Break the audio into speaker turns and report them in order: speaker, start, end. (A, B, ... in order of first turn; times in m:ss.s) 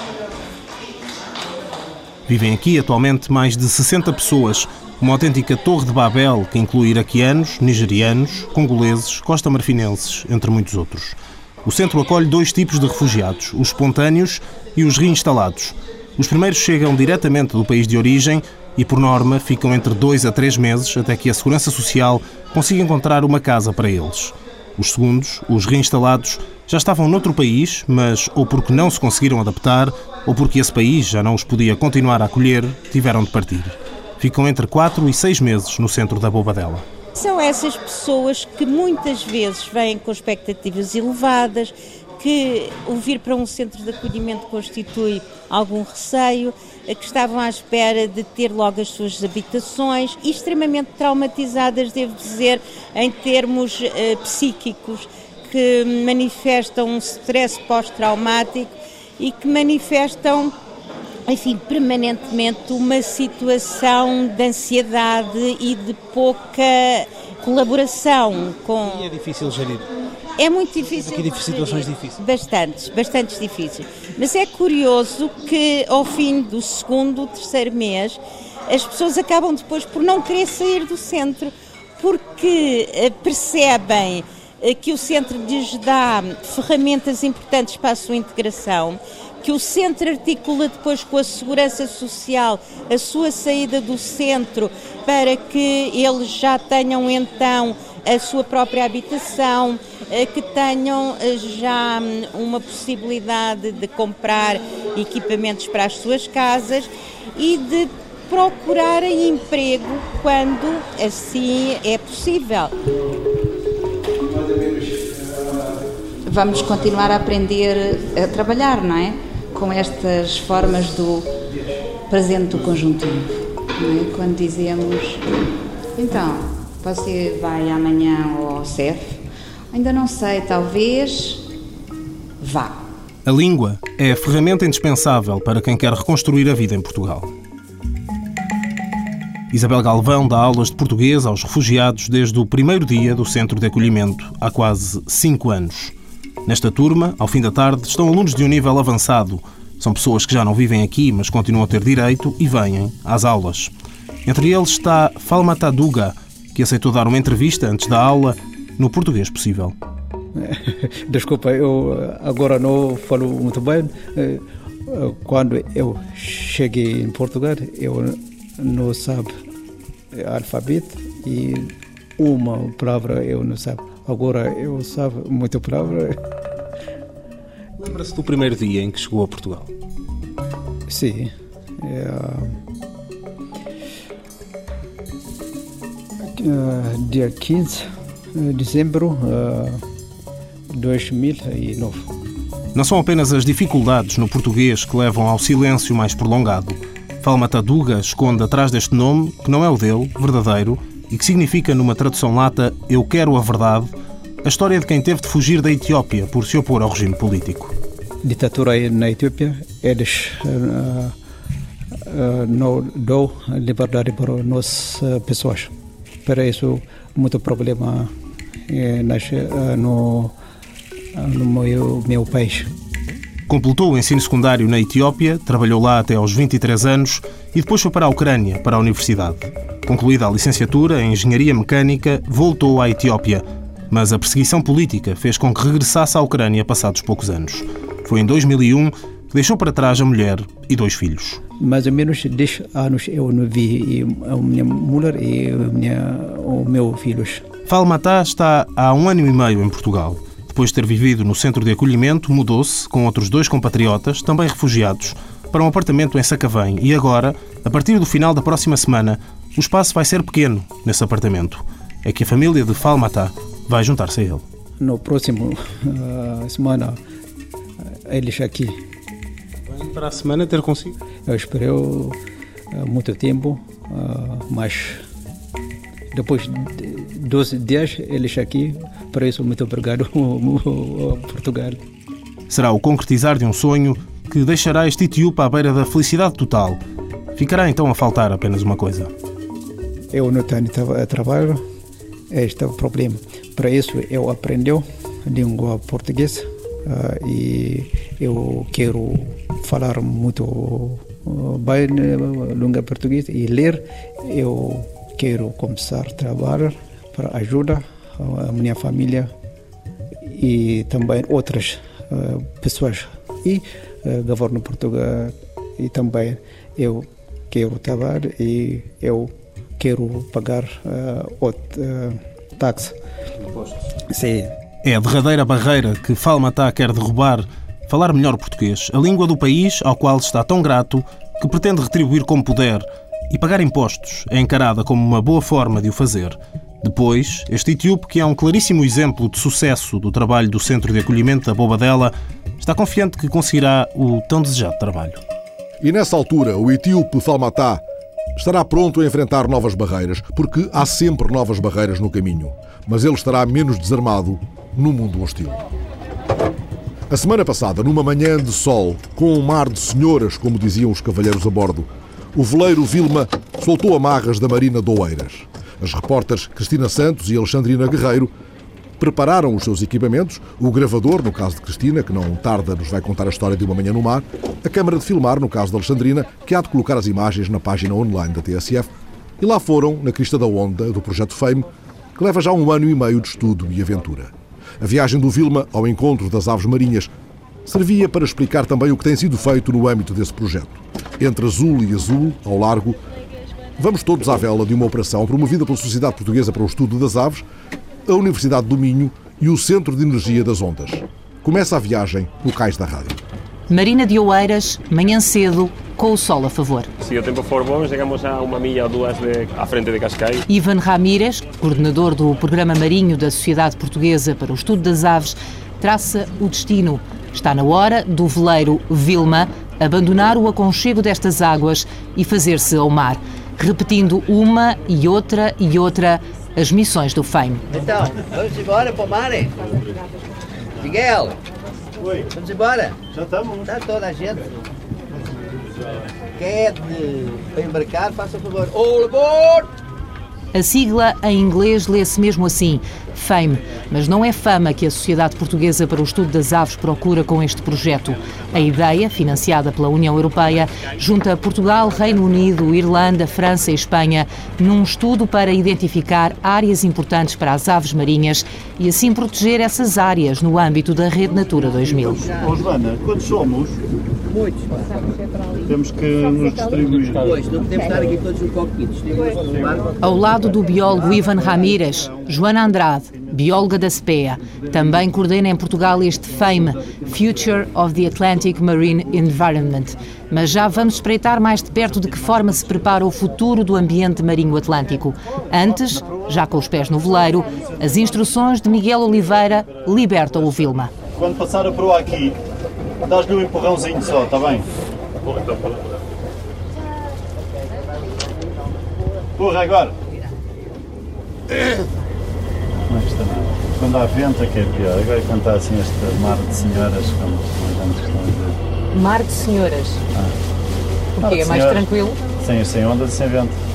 0:02.3-0:36.8 A
0:37.1-1:00.5 B
1:01.3-1:09.2 B
1:10.4-1:52.7 B
1:56.2-2:01.3 C
2:02.1-2:05.2 C
2:06.0-2:09.2 C
2:09.7-2:11.4 C
2:12.4-2:12.8 C
2:13.2-2:17.3 A
2:19.5-2:25.9 A
2:26.4-2:33.7 A
2:34.2-2:39.7 A
2:40.4-2:49.3 D
2:50.1-2:56.2 D
2:57.8-2:59.7 A
3:00.9-3:02.5 D
3:06.2-3:09.8 D
3:10.7-3:12.0 D
3:12.7-3:23.9 A
3:24.4-3:27.7 A
3:28.2-3:31.1 D
3:32.1-3:35.7 D
3:36.2-3:38.1 D
3:38.7-3:40.3 D
3:41.1-3:42.7 D
3:43.5-4:01.4 A
4:01.6-4:07.4 D
4:07.7-4:24.4 A
4:24.8-4:27.0 D
4:28.0-4:28.8 D
4:29.7-4:31.0 A
4:31.3-4:32.2 D
4:32.7-4:35.0 D
4:36.1-4:41.8 D
4:42.5-4:46.8 A
4:47.4-4:49.1 A
4:50.1-4:51.6 D
4:52.3-5:09.3 D
5:10.2-5:22.9 D
5:24.1-5:24.5 D
5:24.8-5:45.2 A
5:45.8-5:47.8 E
5:48.4-5:55.6 E
5:57.1-6:08.3 E
6:09.0-6:18.9 E
6:19.4-6:27.1 E
6:27.6-6:33.0 E
6:33.8-6:37.4 E
6:38.1-6:43.2 E
6:43.7-6:46.9 F
6:47.0-6:50.4 G
6:50.5-7:07.6 F
7:07.7-7:09.6 H
7:10.8-7:11.4 H
7:12.0-7:12.3 I
7:12.3-7:13.0 H
7:13.1-7:13.7 I
7:13.6-7:14.5 H
7:16.4-7:19.7 H
7:20.5-7:42.2 F
7:41.8-7:43.8 I
7:44.3-7:44.9 H
7:45.6-7:47.4 I
7:47.1-7:50.0 H
7:50.0-8:10.9 F
8:07.6-8:08.2 I
8:11.1-8:12.4 I
8:13.0-8:14.7 I
8:15.2-8:15.5 I
8:19.4-8:20.0 I
8:22.9-8:28.6 I
8:28.9-8:30.0 F
8:31.2-8:32.2 F
8:31.2-8:33.6 I